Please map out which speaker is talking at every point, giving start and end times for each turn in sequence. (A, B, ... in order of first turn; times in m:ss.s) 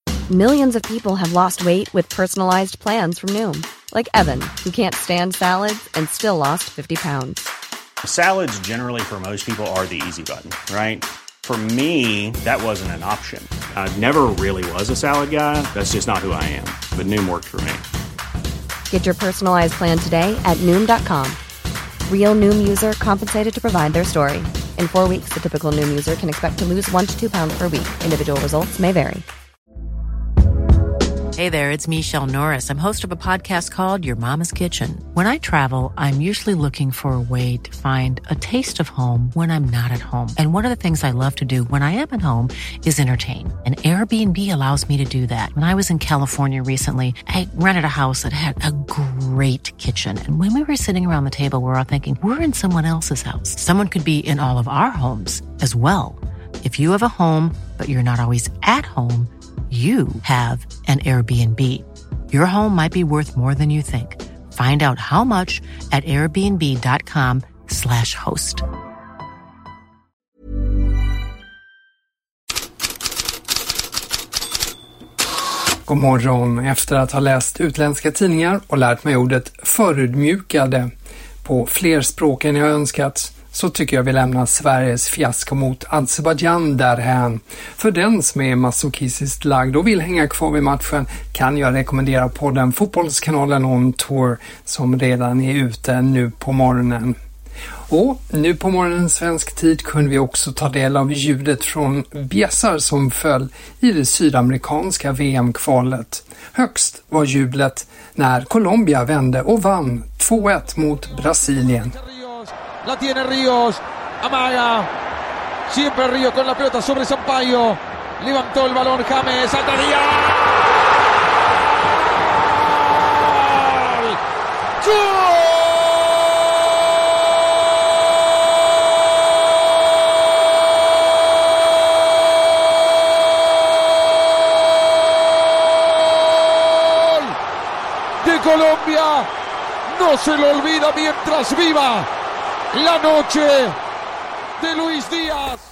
0:00.3-0:07.4 A
0:08.0-0:17.8 B
0:18.9-0:21.4 A
0:22.1-0:29.2 A
0:31.4-1:08.6 C
1:15.9-1:20.9 D
1:21.4-1:37.1 D
1:37.9-1:51.9 D
1:52.0-1:54.9 E
1:55.7-2:00.6 E
2:03.5-2:04.1 E
2:04.8-2:05.6 E
2:17.0-2:17.3 E
2:18.2-2:19.3 E
2:19.9-2:22.0 E
2:22.7-2:23.7 E
2:24.6-2:25.6 E